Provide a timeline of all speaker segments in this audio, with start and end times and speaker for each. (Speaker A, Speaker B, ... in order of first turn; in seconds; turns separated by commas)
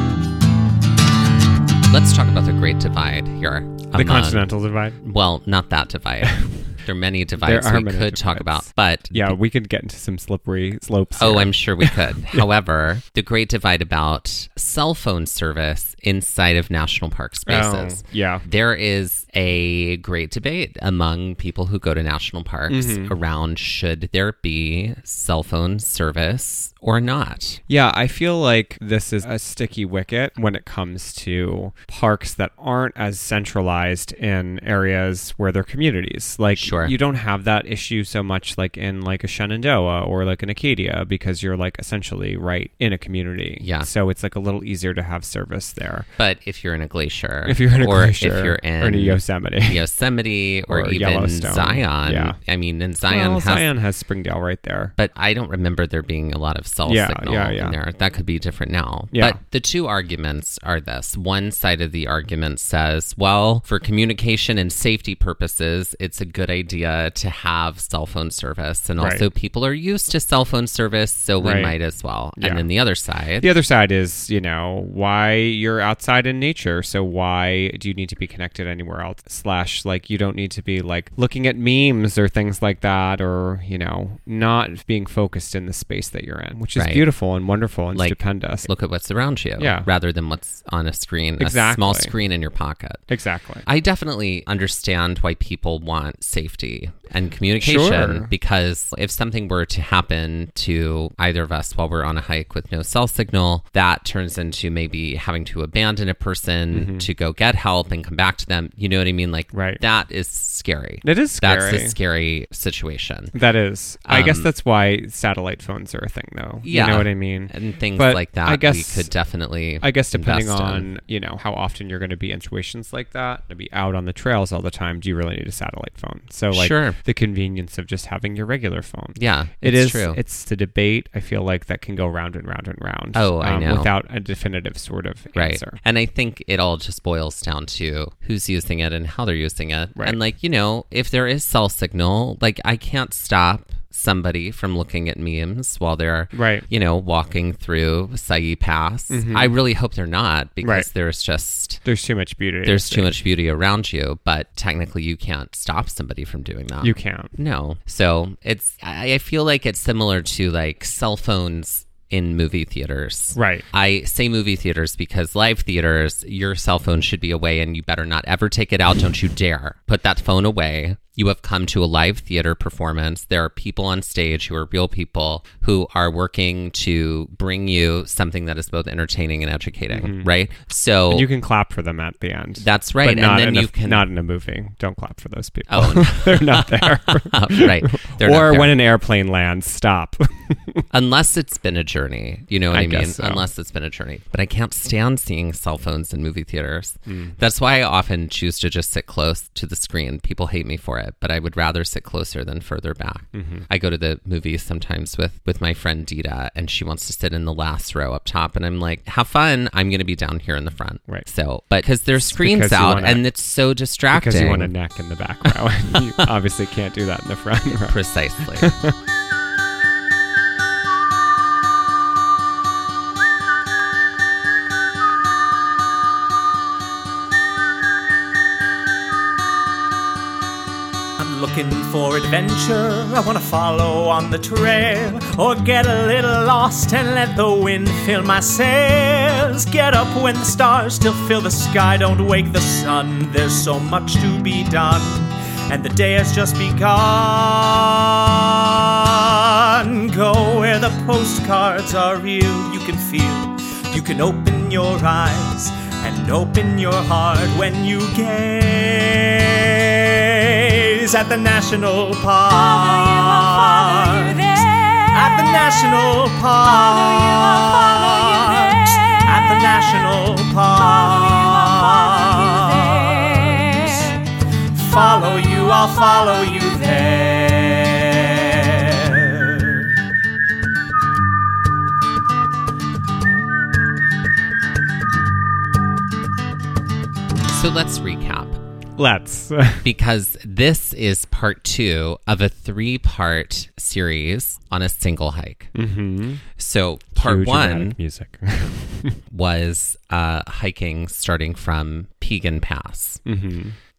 Speaker A: 1.9-4.5, Speaker B: 3.9-5.0, Speaker A: 5.0-9.3, Speaker B: 6.2-6.5, Speaker B: 7.4-12.4, Speaker A: 11.2-27.6, Speaker B: 17.4-18.4, Speaker B: 22.7-23.1, Speaker B: 27.7-46.1, Speaker A: 36.5-36.9, Speaker A: 43.6-43.9, Speaker A: 46.2-53.6, Speaker B: 47.5-49.8, Speaker B: 50.7-52.4, Speaker B: 53.1-54.9, Speaker A: 55.0-73.5, Speaker B: 56.8-57.8, Speaker B: 59.1-59.4, Speaker B: 69.0-69.3, Speaker B: 71.4-71.7, Speaker B: 72.4-72.7, Speaker B: 73.4-88.7, Speaker A: 86.7-87.0, Speaker A: 87.9-93.0, Speaker B: 89.6-89.9, Speaker B: 91.4-92.1, Speaker B: 93.1-93.6, Speaker A: 93.7-113.3, Speaker B: 97.6-98.3, Speaker B: 106.7-107.1, Speaker B: 109.5-109.8, Speaker B: 111.0-112.0, Speaker B: 113.3-119.1, Speaker A: 114.1-114.5, Speaker A: 116.6-120.9, Speaker B: 119.8-135.8, Speaker A: 126.5-127.0, Speaker A: 129.2-130.2, Speaker A: 133.1-133.9, Speaker A: 135.3-151.8, Speaker B: 139.9-140.2, Speaker B: 146.3-146.7, Speaker B: 149.1-149.5, Speaker B: 150.6-150.9, Speaker B: 151.8-153.1, Speaker A: 152.6-181.3, Speaker B: 156.8-157.3, Speaker B: 163.3-163.6, Speaker B: 179.9-180.3, Speaker B: 181.1-190.8, Speaker A: 182.6-184.0, Speaker A: 185.7-188.8, Speaker A: 190.9-214.7, Speaker B: 192.7-193.4, Speaker B: 197.1-197.3, Speaker B: 203.3-203.7, Speaker B: 212.2-213.2, Speaker B: 214.1-218.0, Speaker A: 217.7-218.7, Speaker B: 218.6-218.9, Speaker C: 231.2-279.9, Speaker A: 287.5-288.6, Speaker B: 289.0-289.8, Speaker A: 289.8-295.7, Speaker B: 295.7-296.4, Speaker A: 296.6-298.0, Speaker B: 297.1-299.2, Speaker A: 299.3-303.2, Speaker B: 303.2-303.7